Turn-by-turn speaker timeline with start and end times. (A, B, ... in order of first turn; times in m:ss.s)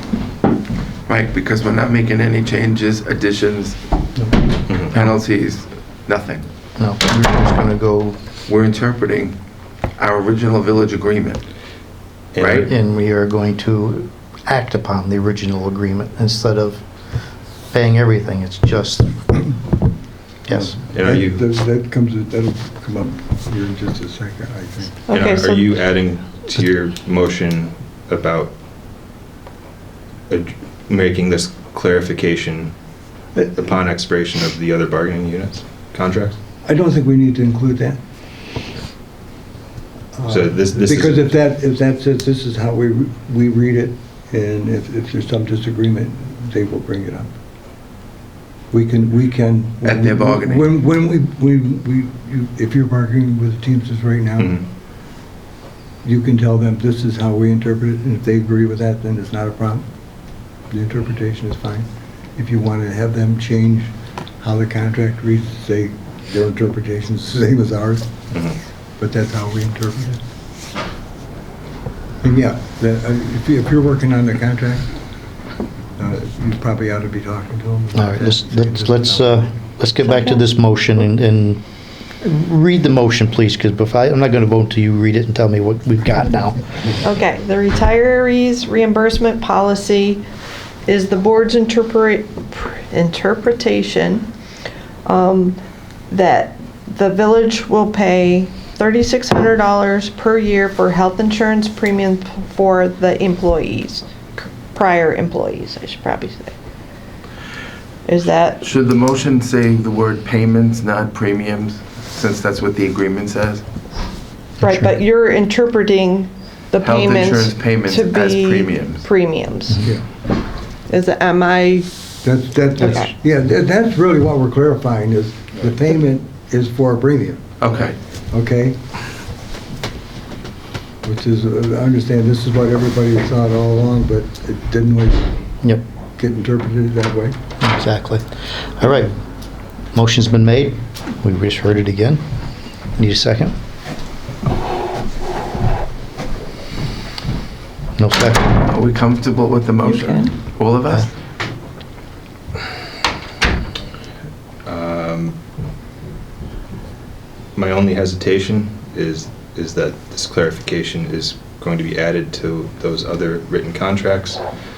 0:01.1-0:03.8 A
0:04.7-0:05.0 B
0:04.9-0:06.5 A
0:06.8-0:08.2 C
0:08.5-0:09.4 A
0:10.0-0:11.4 A
0:12.3-0:12.7 B
0:12.4-0:12.7 A
0:12.6-0:16.8 C
0:17.7-0:19.3 C
0:20.5-0:20.8 C
0:20.5-0:25.0 D
0:20.9-0:21.4 B
0:25.1-0:25.7 E
0:25.1-0:28.5 B
0:30.3-0:32.9 B
0:33.4-0:36.4 B
0:36.6-0:38.0 D
0:40.2-0:47.4 D
0:40.3-0:41.3 B
0:48.7-0:54.6 D
0:49.8-0:50.7 A
0:56.0-0:59.9 D
1:00.7-1:08.1 D
1:08.3-1:08.6 B
1:09.0-1:10.2 D
1:12.2-1:14.9 D
1:16.0-1:19.3 D
1:18.0-1:21.6 C
1:20.0-1:20.4 E
1:22.2-1:26.6 C
1:27.0-1:30.2 E
1:30.9-1:34.3 E
1:35.0-1:35.6 E
1:36.1-1:46.5 E
1:48.1-1:48.7 E
1:48.6-1:53.6 A
1:54.6-1:59.8 E
1:54.6-1:54.9 C
1:56.8-1:59.1 A
1:59.7-2:00.0 C
2:00.9-2:01.9 E
2:02.2-2:07.5 D
2:02.8-2:03.1 E
2:07.6-2:08.0 A
2:08.3-2:08.8 D
2:11.0-2:15.3 D
2:16.2-2:17.4 D
2:17.6-2:18.3 C
2:18.8-2:19.1 C
2:19.9-2:22.2 C
2:23.0-2:23.6 C
2:28.0-2:28.6 C
2:28.7-2:31.1 A
2:29.8-2:30.3 E
2:34.6-2:35.4 B
2:37.6-2:44.4 B